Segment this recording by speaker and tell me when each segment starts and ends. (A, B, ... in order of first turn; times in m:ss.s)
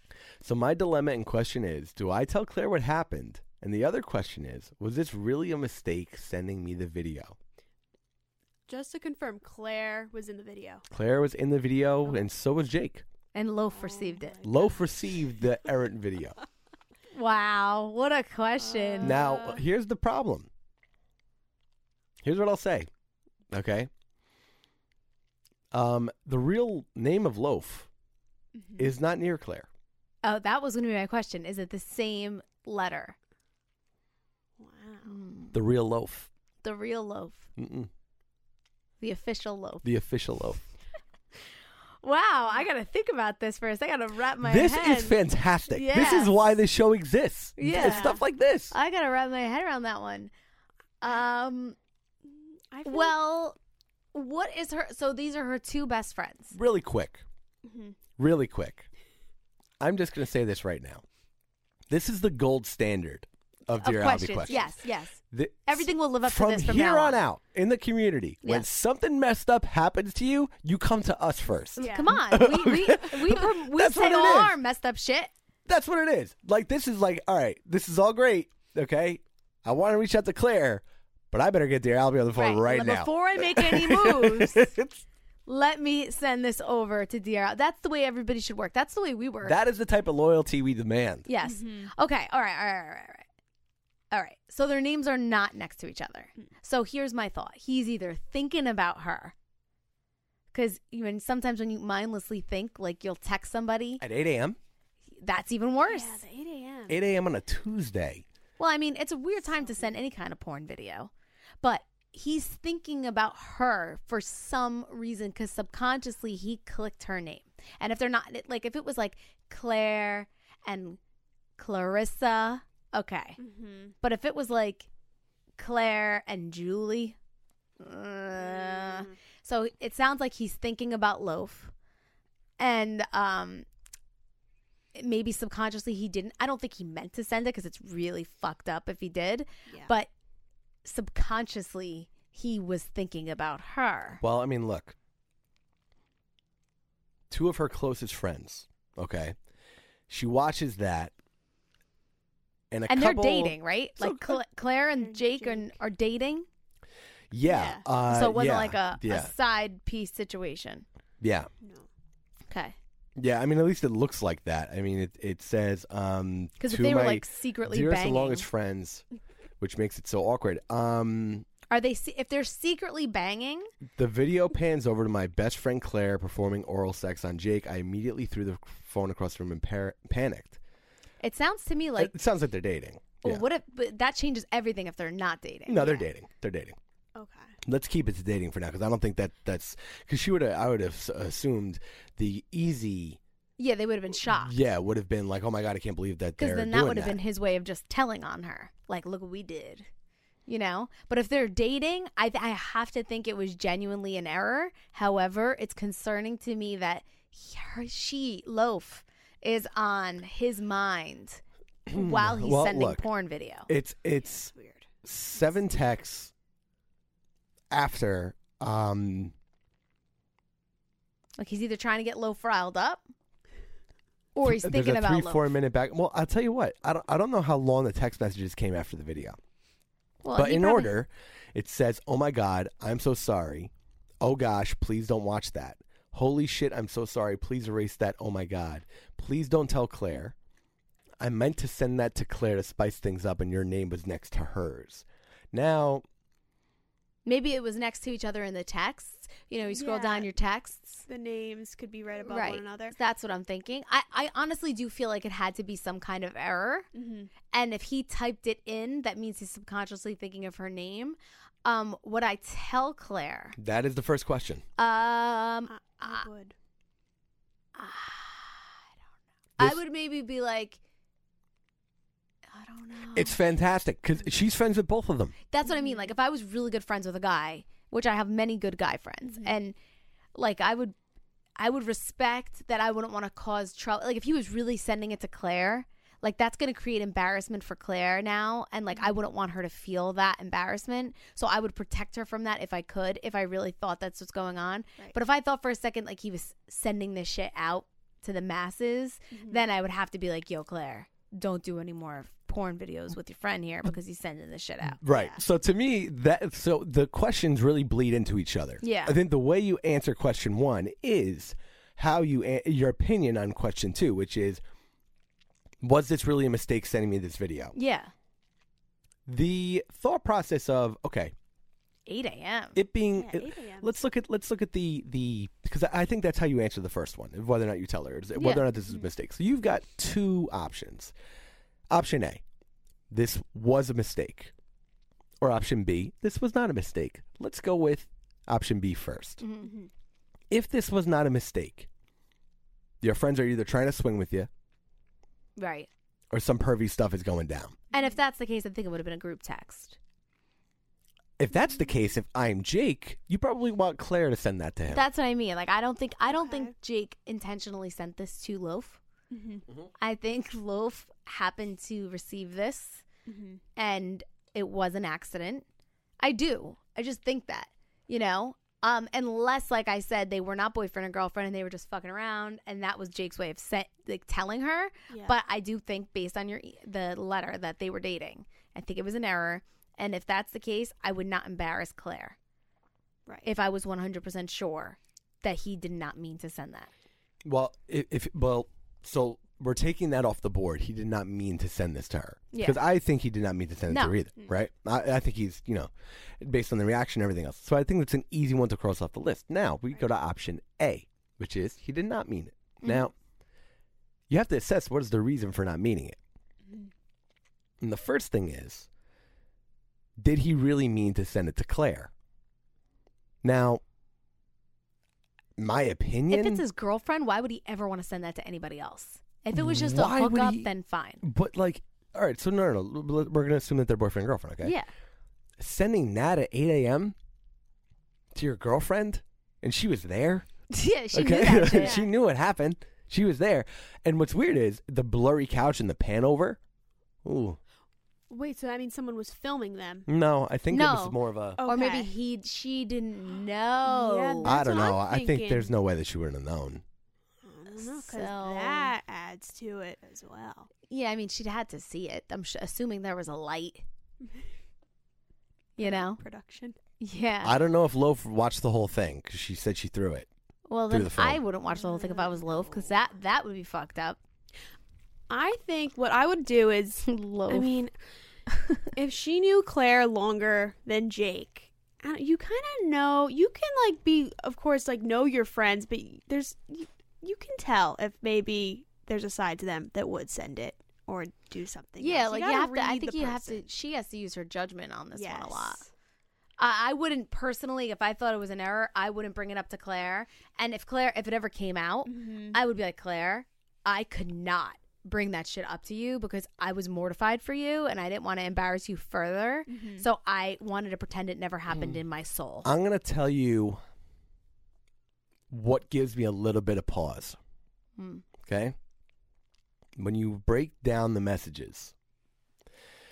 0:00.4-0:07.4 A
0:08.7-0:10.8 B
0:10.9-0:13.0 A
0:13.3-0:14.4 C
0:13.7-0:14.8 B
0:14.4-0:16.4 A
0:17.1-0:19.2 C
0:18.6-0:19.6 B
0:19.0-0:20.5 A
0:22.2-0:22.9 A
0:23.5-0:23.9 A
0:25.7-0:27.9 A
0:28.6-0:28.9 B
0:28.8-0:29.7 A
0:30.2-0:33.2 C
0:34.6-0:35.2 B
0:35.1-0:35.6 C
0:35.5-0:36.3 A
0:36.6-0:37.5 C
0:37.6-0:37.9 A
0:39.0-0:39.8 C
0:39.8-0:40.6 A
0:42.0-0:45.1 C
0:44.4-0:48.7 A
0:45.7-0:46.3 C
0:47.6-0:48.2 C
0:47.6-0:48.2 B
0:48.7-0:50.3 C
0:51.0-0:51.8 C
0:52.4-0:53.1 B
0:52.8-0:53.6 C
0:54.1-0:56.6 C
0:56.5-0:57.2 A
0:57.6-0:57.9 B
0:58.2-0:58.9 A
0:59.8-1:01.0 A
1:01.9-1:04.7 A
1:03.8-1:07.2 C
1:04.5-1:04.8 B
1:05.3-1:14.6 A
1:11.8-1:15.3 C
1:11.8-1:12.2 B
1:15.6-1:25.0 A
1:22.3-1:24.7 C
1:25.4-1:29.6 C
1:29.4-1:31.2 A
1:31.3-1:33.2 C
1:31.4-1:31.9 B
1:34.1-1:39.3 C
1:40.5-1:44.0 C
1:44.0-1:44.6 A
1:45.2-1:46.2 C
1:45.8-1:47.0 B
1:46.9-1:48.2 A
1:48.6-1:51.1 C
1:49.6-1:49.9 B
1:51.6-2:01.0 C
2:01.6-2:03.4 C
2:03.4-2:03.9 B
2:04.0-2:04.9 C
2:05.6-2:07.2 C
2:07.8-2:11.7 C
2:08.3-2:09.1 B
2:12.6-2:13.6 C
2:14.9-2:20.1 C
2:20.8-2:24.2 C
2:24.2-2:24.9 A
2:27.3-2:29.4 A
2:30.1-2:31.1 A
2:32.7-2:34.4 A
2:32.9-2:36.4 C
2:34.9-2:35.8 B
2:37.3-2:39.3 A
2:37.5-2:37.8 B
2:38.1-2:40.8 C
2:41.2-2:41.5 A
2:41.6-2:41.9 B
2:42.5-2:42.7 C
2:43.2-2:49.0 A
2:46.6-2:48.4 C
2:49.6-2:51.4 A
2:51.7-2:53.7 C
2:54.0-3:00.6 A
3:01.2-3:02.1 C
3:02.0-3:03.4 A
3:03.2-3:06.0 C
3:05.6-3:06.8 A
3:07.1-3:07.5 B
3:07.6-3:13.2 A
3:13.6-3:14.5 C
3:14.2-3:17.2 A
3:16.4-3:19.9 C
3:20.4-3:33.7 C
3:31.9-3:33.0 A
3:33.7-3:34.5 A
3:34.5-3:34.9 B
3:35.0-3:36.3 A
3:37.7-3:39.3 A
3:41.4-3:43.0 C
3:44.3-3:45.5 C
3:44.4-3:49.4 A
3:50.2-3:50.9 C
3:50.3-4:00.3 A
4:01.2-4:06.0 A
4:07.2-4:11.0 C
4:09.7-4:10.3 B
4:11.1-4:12.9 B
4:12.2-4:16.9 C
4:16.9-4:17.3 B
4:17.5-4:23.6 C
4:23.6-4:24.6 A
4:24.8-4:26.3 C
4:25.7-4:26.5 B
4:27.8-4:28.7 C
4:29.6-4:30.8 C
4:32.5-4:33.4 C
4:33.1-4:35.3 A
4:35.5-4:39.8 C
4:35.6-4:36.1 B
4:39.2-4:39.6 B
4:40.3-4:40.9 C
4:41.6-5:05.0 C
4:59.3-4:59.7 B
5:05.0-5:14.6 A
5:05.0-5:05.4 B
5:08.8-5:09.2 C
5:15.8-5:17.7 A
5:17.7-5:18.1 C
5:19.2-5:21.3 A
5:22.1-5:22.8 C
5:22.7-5:31.1 A
5:23.1-5:23.9 B
5:28.4-5:28.6 C
5:31.9-5:32.4 A
5:33.1-5:34.5 A
5:35.4-5:39.4 A
5:39.4-5:39.8 C
5:40.5-5:41.9 A
5:43.0-5:44.5 A
5:45.6-5:45.9 C
5:46.3-5:47.8 A
5:47.9-5:50.0 C
5:51.4-5:55.0 A
5:54.9-5:59.0 C
5:56.3-5:56.7 B
5:59.3-5:59.6 B
6:00.0-6:03.0 C
6:03.3-6:03.6 B
6:03.8-6:05.6 C
6:06.2-6:22.4 C
6:15.1-6:15.4 B
6:23.4-6:26.9 C
6:27.4-6:43.1 A
6:32.5-6:32.8 C
6:33.9-6:34.1 C
6:42.8-6:43.1 C
6:44.3-6:46.2 A
6:47.8-6:48.9 A
6:50.2-6:52.1 A
6:53.4-6:53.8 A
6:55.6-6:56.6 A
6:56.3-7:01.2 C
6:59.5-7:04.8 A
7:04.6-7:04.9 C
7:05.6-7:07.1 A
7:08.3-7:10.5 A
7:10.7-7:12.0 C
7:11.1-7:16.6 A
7:11.7-7:12.1 B
7:17.2-7:17.6 A
7:18.3-7:20.1 B
7:20.1-7:21.6 A
7:20.7-7:25.0 C
7:21.6-7:22.1 B
7:23.8-7:25.7 B
7:24.4-7:26.8 A
7:27.4-7:30.7 B
7:27.7-7:28.9 C
7:30.9-7:33.8 C
7:35.8-7:36.2 C
7:35.8-7:36.7 B
7:37.0-7:37.6 C
7:37.4-7:40.3 A
7:40.7-7:44.2 C
7:40.9-7:41.4 A
7:41.7-7:43.0 B
7:45.3-7:47.9 B
7:47.0-7:47.7 C
7:48.9-8:03.6 B
8:02.0-8:05.8 C
8:05.1-8:05.9 B
8:06.6-8:22.7 C
8:12.0-8:12.6 B
8:19.7-8:20.0 B
8:21.7-8:22.0 A
8:22.6-8:23.8 A
8:25.5-8:27.4 A
8:28.0-8:28.2 C
8:28.4-8:28.7 A
8:30.0-8:31.9 A